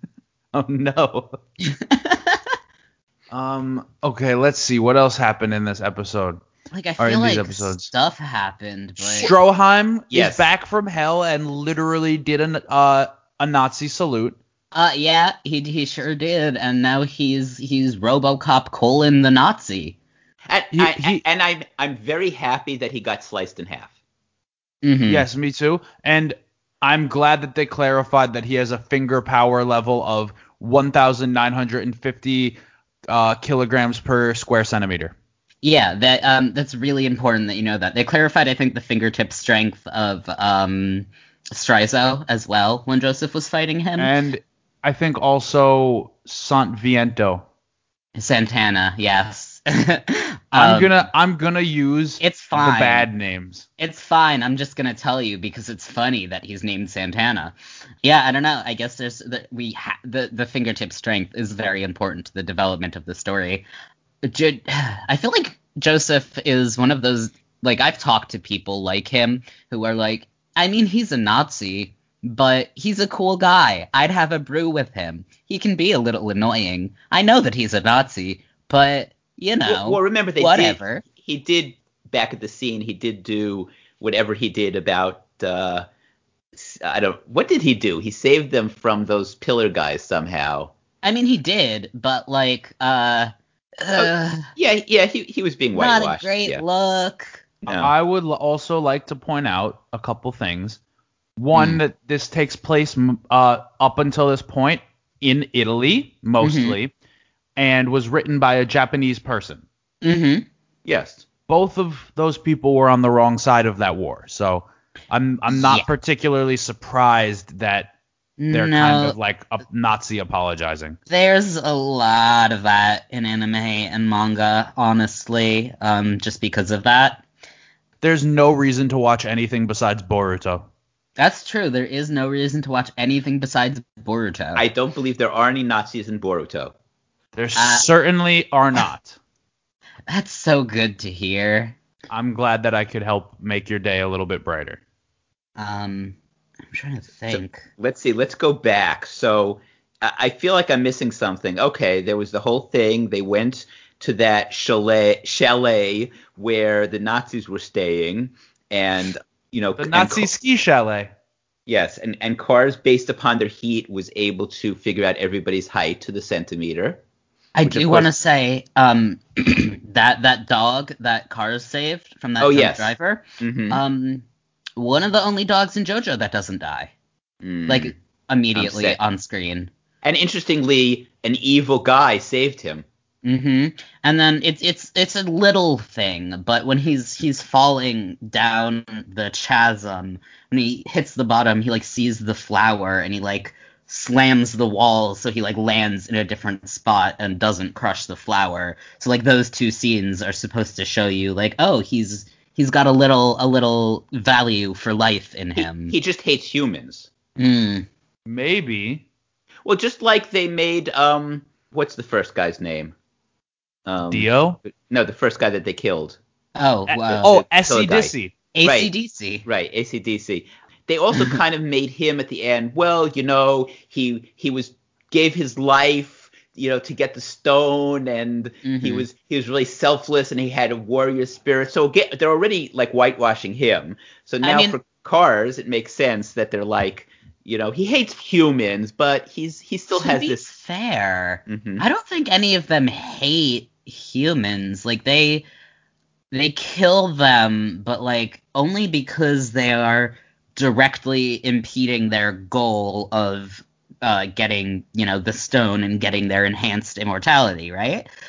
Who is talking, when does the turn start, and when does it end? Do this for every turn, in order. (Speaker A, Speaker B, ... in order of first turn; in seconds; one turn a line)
Speaker A: 0.5-1.4
Speaker B: 1.6-2.4
Speaker A: 3.3-6.4
Speaker B: 6.7-9.3
Speaker A: 7.0-7.9
Speaker A: 9.0-14.4
Speaker C: 10.1-10.5
Speaker B: 14.7-19.9
Speaker C: 20.5-23.9
Speaker A: 20.7-21.2
Speaker B: 24.8-25.2
Speaker A: 25.1-32.6
Speaker A: 33.1-35.1
Speaker B: 35.6-44.1
Speaker A: 44.0-47.4
Speaker B: 48.1-50.9
Speaker A: 50.5-53.6
Speaker B: 52.2-53.1
Speaker B: 53.8-63.6
Speaker B: 64.2-81.0
Speaker C: 79.7-85.8
Speaker C: 86.5-90.7
Speaker B: 91.0-94.5
Speaker C: 93.9-96.6
Speaker B: 95.7-97.4
Speaker C: 97.7-97.9
Speaker A: 97.7-100.8
Speaker A: 101.4-106.9
Speaker B: 101.5-101.8
Speaker B: 106.4-106.8
Speaker A: 107.5-109.6
Speaker B: 110.0-110.5
Speaker C: 110.8-111.2
Speaker A: 111.5-117.9
Speaker B: 115.5-115.9
Speaker B: 118.4-119.2
Speaker A: 118.5-121.0
Speaker B: 121.1-127.2
Speaker A: 128.0-130.7
Speaker B: 131.2-134.6
Speaker C: 134.6-136.7
Speaker A: 137.3-139.2
Speaker B: 137.5-137.9
Speaker B: 140.1-141.8
Speaker A: 142.1-144.8
Speaker B: 145.6-146.2
Speaker B: 146.7-147.7
Speaker C: 147.3-160.3
Speaker A: 159.8-161.1
Speaker C: 161.7-167.0
Speaker B: 167.5-174.2
Speaker C: 167.6-168.1
Speaker C: 172.4-173.8
Speaker B: 174.8-176.9
Speaker C: 177.4-177.9
Speaker B: 177.7-179.7
Speaker C: 178.5-179.0
Speaker C: 180.0-182.8
Speaker B: 183.2-205.9
Speaker C: 205.6-207.1
Speaker B: 207.4-207.9
Speaker A: 208.2-209.0
Speaker C: 209.6-212.9
Speaker C: 213.8-216.2
Speaker A: 214.1-214.6
Speaker B: 216.6-217.4
Speaker A: 216.9-218.3
Speaker C: 217.2-218.9
Speaker B: 218.5-219.4
Speaker C: 219.4-240.5
Speaker B: 228.6-229.1
Speaker B: 234.4-234.8
Speaker B: 239.9-245.4
Speaker C: 241.5-241.8
Speaker B: 246.3-258.1